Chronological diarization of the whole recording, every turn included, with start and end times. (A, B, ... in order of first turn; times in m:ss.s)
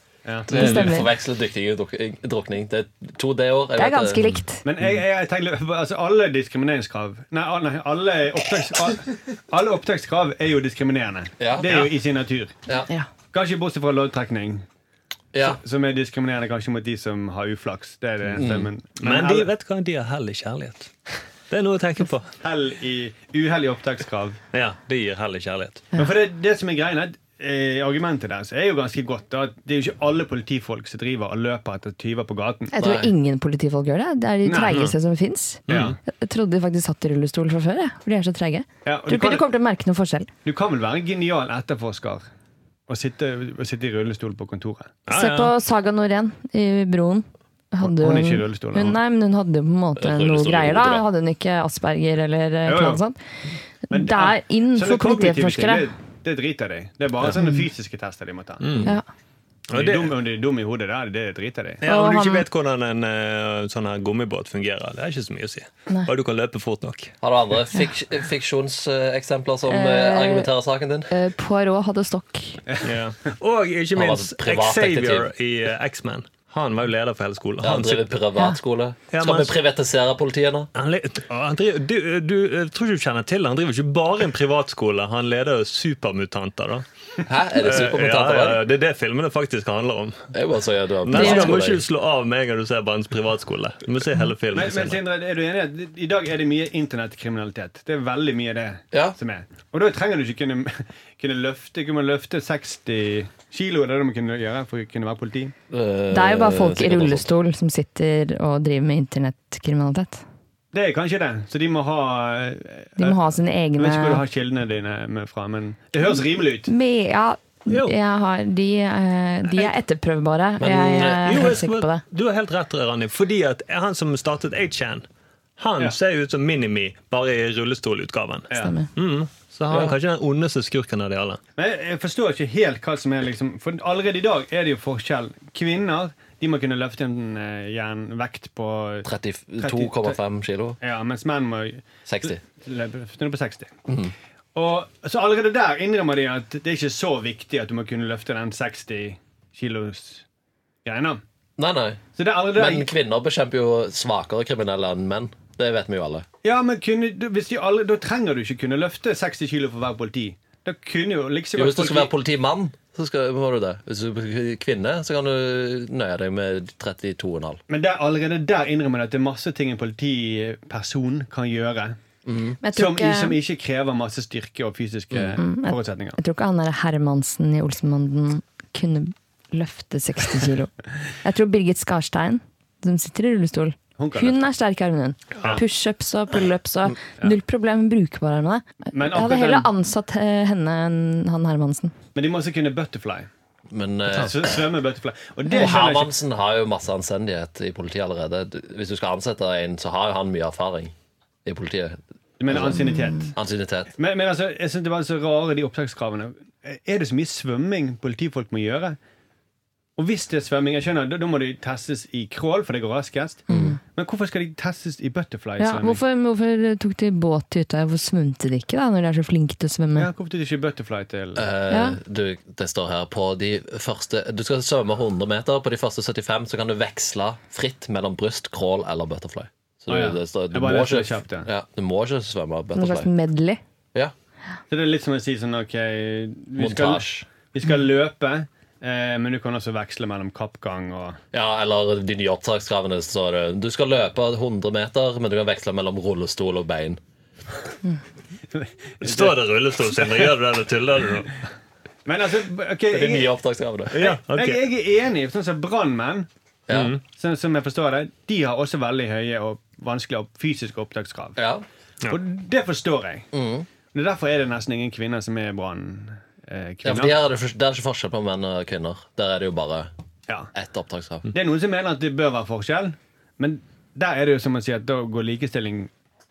0:00.2-0:01.0 A
0:00.5-0:01.1 B
0:00.5-0:04.2 C
0:03.8-0:04.6 B
0:04.6-0:12.6 A
0:11.4-0:11.8 C
0:11.6-0:11.9 D
0:13.3-0:14.6 A
0:15.3-0:15.6 C
0:15.4-0:19.5 A
0:18.3-0:18.7 C
0:19.0-0:20.9 D
0:21.5-0:22.4 D
0:22.4-0:24.4 A
0:24.5-0:25.9 D
0:25.9-0:32.7 A
0:32.7-0:40.3 B
0:32.8-0:33.1 C
0:34.4-0:34.9 A
0:35.7-0:36.0 D
0:35.7-0:36.0 A
0:38.8-0:39.5 A
0:40.4-0:42.2 A
0:42.9-0:45.0 A
0:45.1-0:45.5 D
0:45.1-0:53.2 B
0:47.8-0:49.0 A
0:50.0-0:51.0 C
0:52.7-0:53.0 A
0:53.9-0:55.9 B
0:53.9-0:58.9 A
0:57.4-0:57.6 B
0:58.6-0:58.9 D
0:59.7-1:00.1 D
0:59.7-1:01.8 A
1:01.8-1:07.1 D
1:01.8-1:02.4 B
1:07.2-1:11.1 C
1:09.7-1:10.5 B
1:11.1-1:12.6 B
1:12.8-1:18.1 D
1:13.9-1:15.3 C
1:17.6-1:20.7 C
1:19.1-1:19.6 D
1:20.7-1:26.8 D
1:27.2-1:28.6 C
1:27.6-1:30.2 D
1:30.3-1:31.8 C
1:31.0-1:35.0 D
1:31.1-1:31.5 B
1:34.5-1:45.5 A
1:45.7-1:47.3 C
1:46.1-1:50.2 B
1:50.7-1:53.2 A
1:53.0-1:54.2 B
1:53.8-1:56.7 A
1:56.6-2:02.0 B
1:57.7-1:57.9 D
2:00.6-2:01.6 C
2:01.1-2:05.0 D
2:05.6-2:11.4 D
2:08.5-2:08.9 B
2:09.7-2:10.0 C
2:11.6-2:19.1 A
2:19.0-2:20.8 C
2:19.6-2:20.1 A
2:20.8-2:23.7 A
2:22.0-2:22.4 C
2:23.9-2:24.1 C
2:24.5-2:30.2 A
2:30.8-2:31.2 A
2:31.6-2:32.0 C
2:32.2-2:32.9 A
2:32.5-2:36.2 C
2:36.4-2:42.1 A
2:41.6-2:47.6 C
2:47.7-2:52.0 A
2:52.2-2:52.6 C
2:52.6-2:53.4 B
2:52.7-2:56.2 A
2:55.1-2:55.4 C
2:55.4-3:00.7 B
3:01.2-3:11.9 B
3:04.0-3:04.4 A
3:08.9-3:09.7 A
3:12.1-3:13.3 A
3:13.7-3:14.7 C
3:14.1-3:16.1 A
3:15.5-3:15.8 B
3:15.5-3:20.9 C
3:21.4-3:22.0 C
3:22.4-3:23.3 A
3:22.5-3:22.8 C
3:22.8-3:23.3 B
3:23.3-3:23.9 C
3:24.0-3:29.0 A
3:30.0-3:36.0 A
3:33.5-3:33.8 C
3:33.5-3:33.8 B
3:35.6-3:40.1 B
3:40.0-3:41.5 A
3:41.3-3:53.1 C
3:41.7-3:42.0 B
3:49.9-3:51.5 A
3:52.7-3:53.6 B
3:54.7-4:01.2 A
3:56.6-3:57.3 C
4:01.3-4:07.0 C
4:08.5-4:09.3 A
4:09.0-4:11.4 D
4:12.0-4:13.3 A
4:12.9-4:14.1 C
4:13.9-4:14.6 D
4:13.9-4:16.3 A
4:16.7-4:16.9 C
4:16.7-4:17.0 D
4:17.1-4:21.4 A
4:21.4-4:21.6 C
4:22.1-4:23.3 A
4:23.3-4:23.7 C
4:23.9-4:27.1 A
4:26.8-4:29.9 C
4:30.5-4:31.3 C
4:31.3-4:35.9 A